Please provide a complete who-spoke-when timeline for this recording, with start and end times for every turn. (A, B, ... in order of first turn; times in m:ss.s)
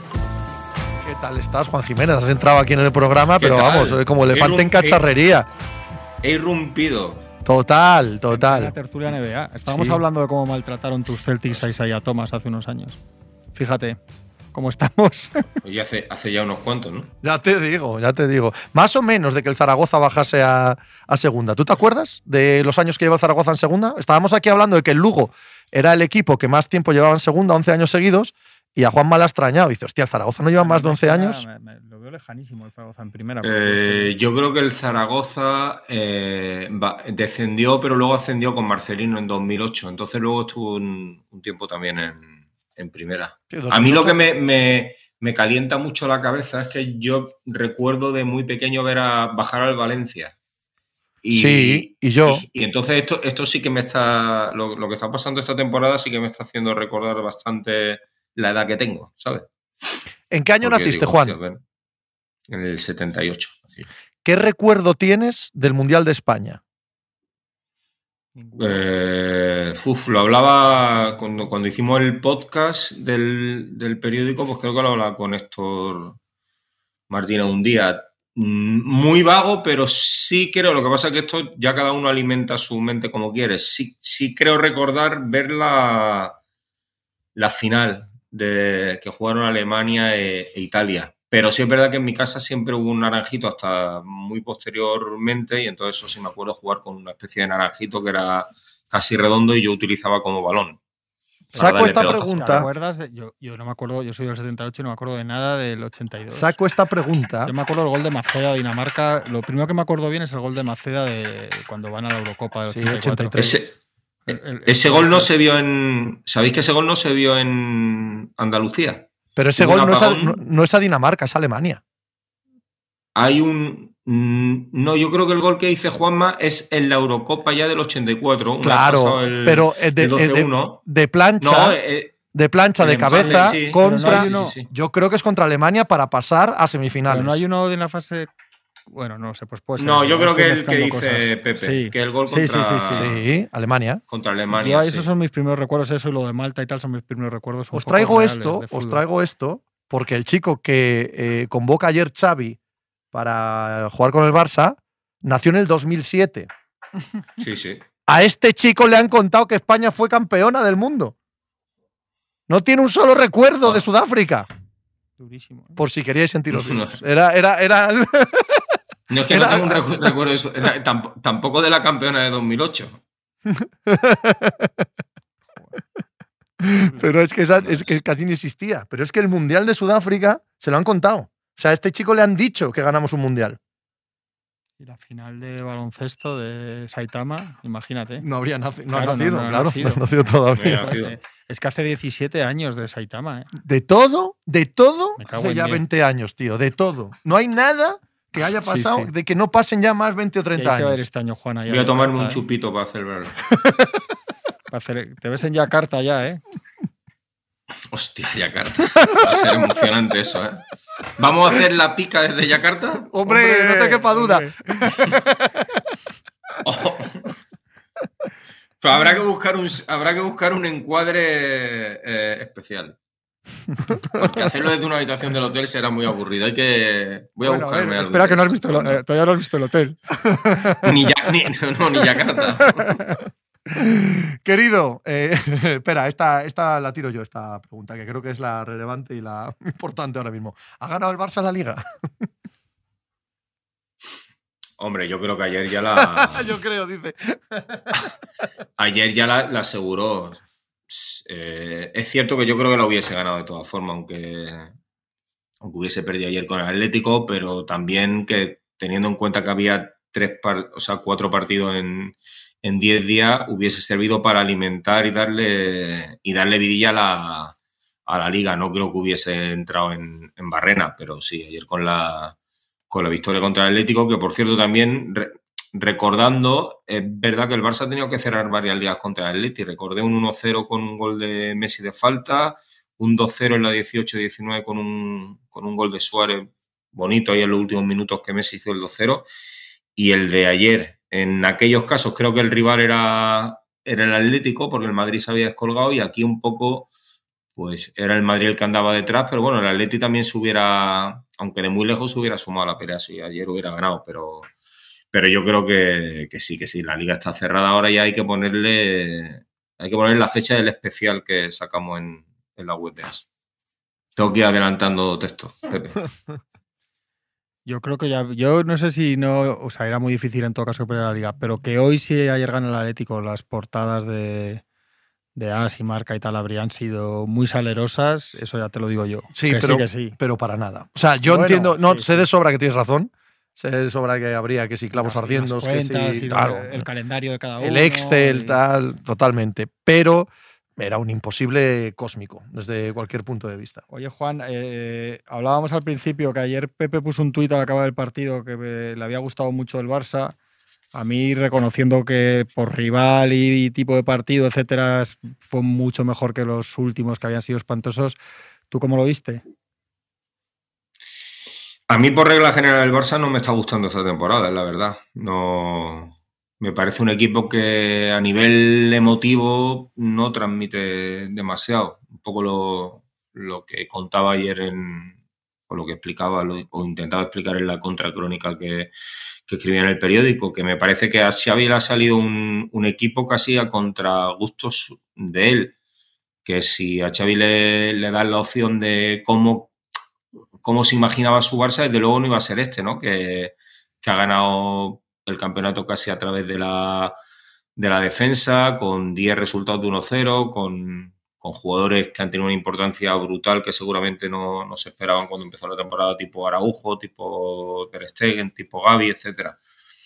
0:01.0-0:05.5 A
0:03.4-0:05.0 B
0:06.2-0:07.2 B
0:07.4-0:08.7 A
0:08.3-0:13.0 C
0:13.6-0:14.0 C
0:14.5-0:15.5 C
0:15.6-0:17.1 B
0:17.2-0:31.4 A
0:30.6-0:34.2 C
0:33.4-0:50.3 B
0:43.5-0:44.2 A
0:51.2-0:59.5 B
0:51.3-0:52.4 A
1:00.3-1:01.4 A
1:00.6-1:01.6 B
1:02.5-1:03.9 B
1:04.2-1:06.6 A
1:08.5-1:16.2 B
1:17.1-1:26.4 B
1:27.4-1:40.8 B
1:41.5-1:46.5 C
1:41.6-1:42.6 B
1:41.6-1:42.7 A
1:46.3-1:47.5 A
1:47.5-1:53.6 C
1:52.7-1:53.5 A
1:53.4-1:53.7 B
1:54.3-1:55.3 C
1:54.3-2:00.4 B
1:59.4-2:01.8 A
2:03.2-2:10.8 B
2:08.6-2:11.8 A
2:11.4-2:12.2 B
2:12.3-2:17.4 A
2:12.8-2:14.7 B
2:13.1-2:14.6 C
2:17.1-2:18.3 C
2:18.9-2:23.1 C
2:19.8-2:23.2 B
2:22.9-2:24.0 A
2:24.1-2:25.1 B
2:24.5-2:29.0 C
2:27.7-2:32.6 A
2:33.1-2:36.5 A
2:37.4-2:37.8 B
2:38.1-2:41.1 A
2:42.5-2:44.5 A
2:45.2-2:45.8 C
2:45.8-2:48.8 A
2:46.5-2:47.0 B
2:49.1-2:53.0 B
2:49.3-2:50.2 A
2:53.5-2:54.9 A
2:56.6-3:03.6 A
2:57.6-2:57.9 B
3:04.8-3:08.2 C
3:08.2-3:11.0 A
3:08.9-3:10.0 C
3:10.6-3:11.2 B
3:10.7-3:13.5 C
3:13.6-3:21.0 A
3:15.2-3:15.8 C
3:18.7-3:19.1 C
3:20.6-3:22.4 C
3:21.7-3:23.4 B
3:23.6-3:24.0 A
3:24.7-3:26.4 C
3:27.9-3:33.1 B
3:33.1-3:35.8 A
3:33.3-3:34.6 C
3:36.6-3:37.3 B
3:38.8-3:43.0 B
3:44.1-3:49.0 B
3:47.4-3:50.0 C
3:50.2-3:51.0 A
3:50.8-3:53.0 B
3:53.8-4:02.3 A
4:04.8-4:06.5 B
4:06.0-4:08.0 A
4:08.8-4:14.7 B
4:15.6-4:27.6 B
4:28.1-4:32.4 B
4:32.9-4:49.3 B
4:50.0-4:56.9 B
4:57.6-5:04.5 B
5:05.1-5:13.3 B
5:14.2-5:16.0 B
5:17.7-5:24.6 C
5:25.4-5:30.2 C
5:29.3-5:36.9 A
5:31.2-5:32.3 C
5:34.9-5:38.6 C
5:37.6-5:43.8 A
5:43.9-5:50.4 C
5:50.9-5:58.2 C
5:58.7-5:59.4 C
6:01.9-6:15.2 B
6:15.7-6:18.9 B
6:19.5-6:25.7 B
6:26.4-6:29.7 B
6:30.6-6:37.2 B
6:37.8-6:49.6 B